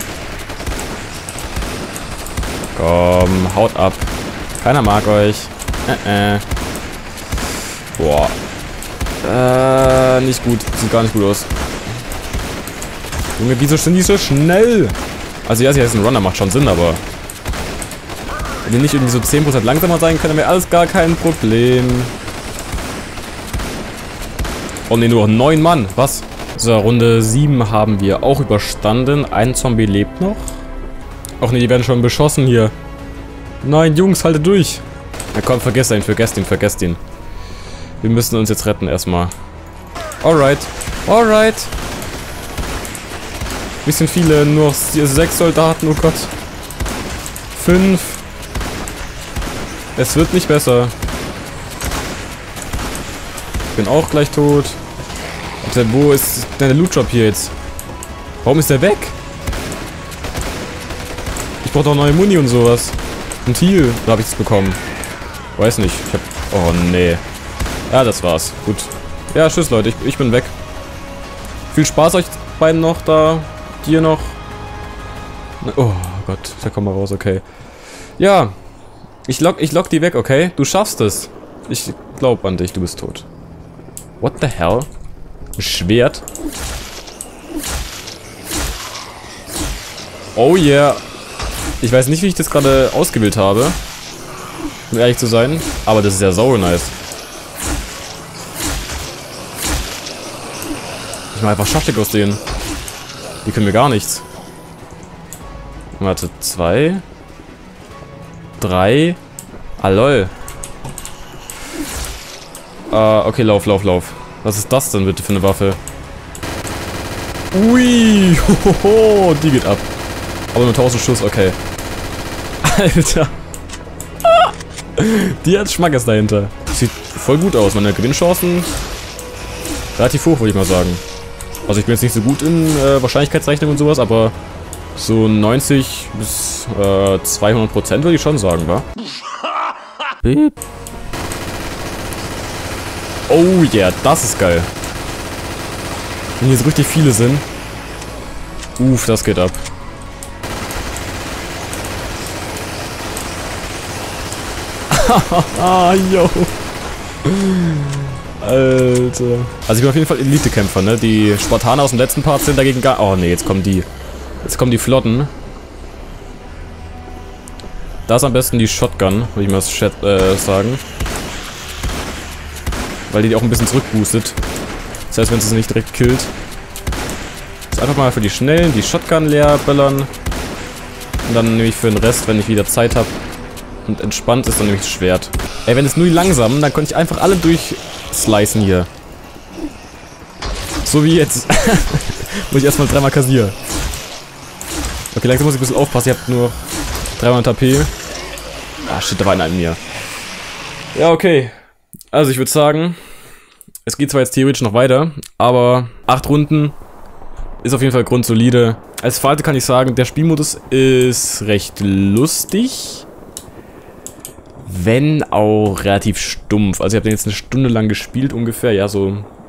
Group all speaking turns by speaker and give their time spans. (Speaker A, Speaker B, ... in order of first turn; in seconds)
Speaker A: 2.7-6.4, 8.0-8.4, 9.2-11.5, 13.4-17.0, 18.6-22.1, 24.9-30.6, 31.4-32.7, 33.6-37.0, 38.0-39.3, 40.2-41.7, 43.8-46.3, 47.5-48.2, 50.0-50.9, 53.7-54.8, 55.6-57.5, 58.4-59.1, 61.6-64.8, 65.5-67.2, 67.9-70.5, 71.7-74.4, 75.6-77.4, 78.2-78.5, 79.3-83.3, 84.2-84.9, 85.6-86.2, 90.3-91.0, 91.8-93.8, 94.9-96.9, 101.3-102.4, 103.4-104.2, 106.0-107.0, 108.6-109.2, 109.8-110.3, 112.9-115.8, 117.5-119.9, 120.5-121.6, 122.6-123.3, 124.2-128.7, 129.9-131.0, 131.7-134.3, 134.9-138.9, 140.2-140.5, 143.3-144.7, 146.4-147.4, 148.8-149.6, 154.9-156.6, 157.2-163.9, 164.4-165.3, 168.1-170.8, 173.1-174.4, 175.1-176.3, 177.7-180.1, 181.2-183.2, 183.8-188.9, 190.8-193.6, 195.1-197.9, 198.8-199.8, 200.9-201.5, 202.1-203.0, 203.8-206.8, 207.6-213.1, 214.6-219.3